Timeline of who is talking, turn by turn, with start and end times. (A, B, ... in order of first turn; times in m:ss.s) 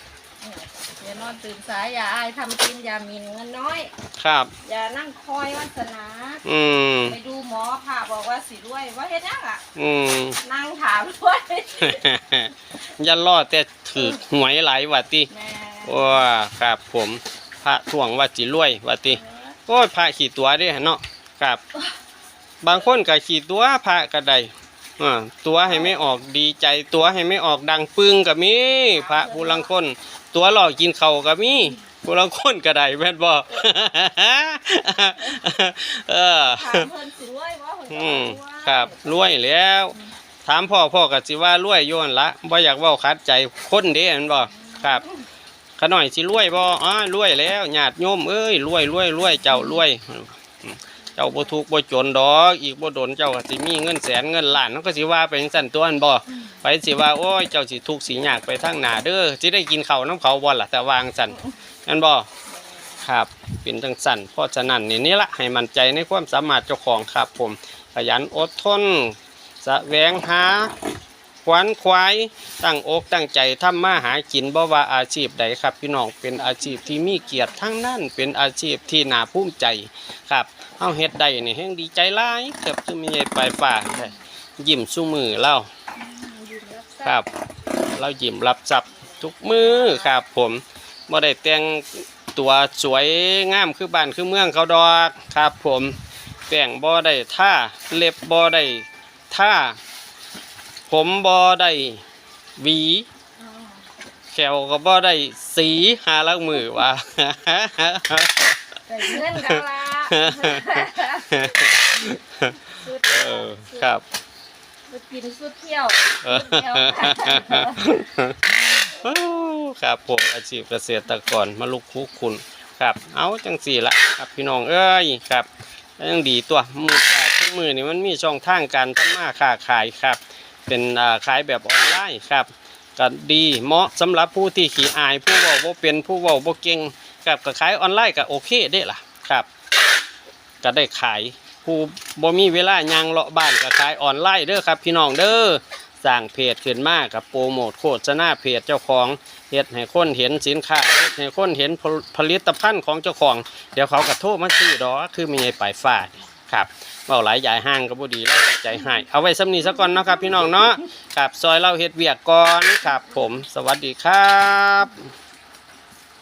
0:00.4-0:03.9 A
0:04.2-0:04.5 B
0:04.6-0:06.4 A
0:06.4-0:07.2 B
0:07.0-0:09.6 A
0:09.7-0:10.4 B
0:10.4-0:12.1 A
0:11.8-0:15.3 B
0:15.3-0:16.2 A
0:15.8-0:21.6 B
0:19.1-0:19.5 A
0:22.6-0:36.9 B
0:28.7-0:29.7 A
0:36.4-0:39.3 A
0:37.9-0:45.0 B
0:44.5-0:45.1 A
0:45.8-1:02.3 B
1:02.5-1:02.9 A
1:03.0-1:10.7 B
1:11.4-1:25.7 B
1:16.4-1:17.5 A
1:26.0-1:27.2 A
1:27.9-1:36.0 B
1:29.1-1:30.1 A
1:36.5-1:39.8 B
1:40.9-1:42.0 B
1:42.6-1:43.1 B
1:43.4-1:43.8 A
1:44.3-1:54.0 B
1:48.9-1:51.8 A
1:52.6-1:53.9 A
1:54.9-1:57.8 A
1:56.2-2:19.5 B
2:20.6-2:45.0 B
2:39.8-2:40.8 A